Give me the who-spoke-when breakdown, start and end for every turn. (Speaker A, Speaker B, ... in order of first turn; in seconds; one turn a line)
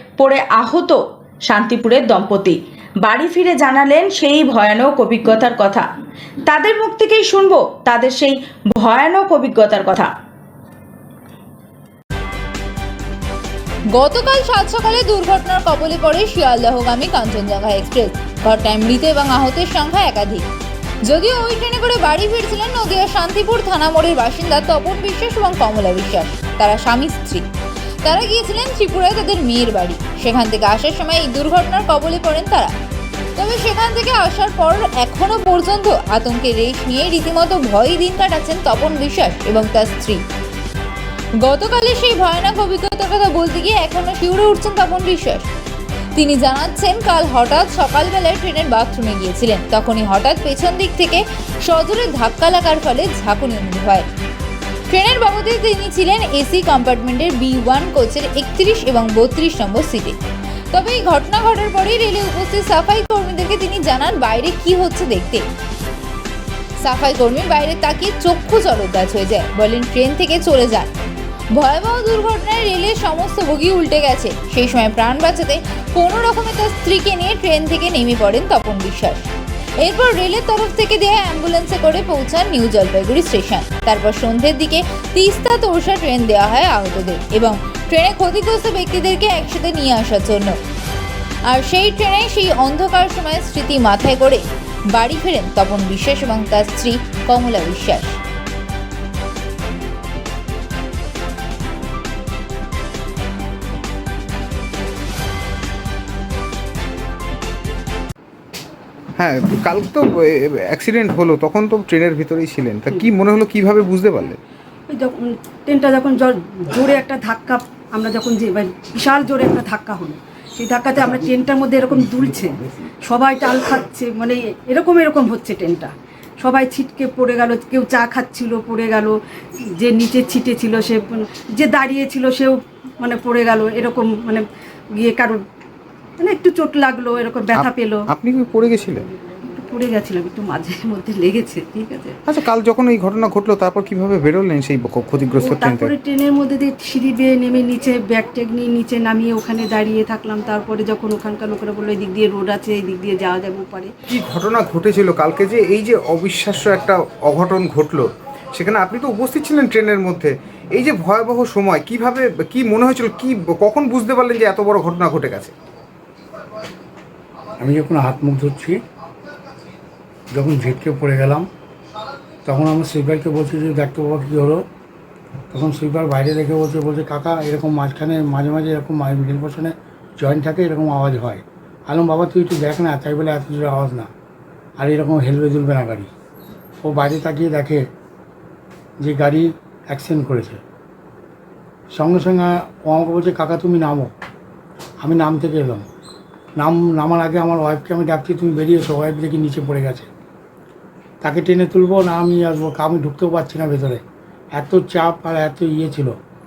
Speaker A: 0.4-0.9
Speaker A: 1.5-5.9
Speaker B: 6.5-7.0
Speaker A: 6.5-10.0
Speaker C: 13.9-20.5
Speaker C: 21.0-27.4
Speaker C: 28.0-32.7
Speaker C: 33.4-40.2
Speaker C: 41.4-45.5
Speaker C: 46.1-54.1
Speaker C: 54.9-60.2
Speaker C: 60.7-65.4
Speaker C: 66.8-70.9
Speaker C: 71.5-79.3
Speaker C: 79.8-90.6
Speaker C: 91.5-94.4
Speaker C: 94.9-98.2
Speaker D: 109.2-114.4
Speaker B: 114.9-129.2
Speaker B: 129.8-134.4
Speaker B: 135.0-135.4
Speaker B: 136.2-138.0
Speaker D: 137.5-139.1
Speaker B: 139.5-142.2
Speaker D: 142.3-145.9
Speaker B: 145.4-153.9
Speaker D: 154.1-165.5
Speaker E: 167.6-168.8
Speaker E: 170.3-171.5
Speaker E: 172.5-174.6
Speaker E: 175.5-184.1
Speaker E: 184.8-186.1
Speaker E: 186.8-187.9
Speaker E: 189.0-190.6
Speaker E: 191.9-194.1
Speaker E: 195.0-195.8
Speaker E: 196.6-200.1
Speaker E: 201.2-204.0
Speaker E: 204.6-206.1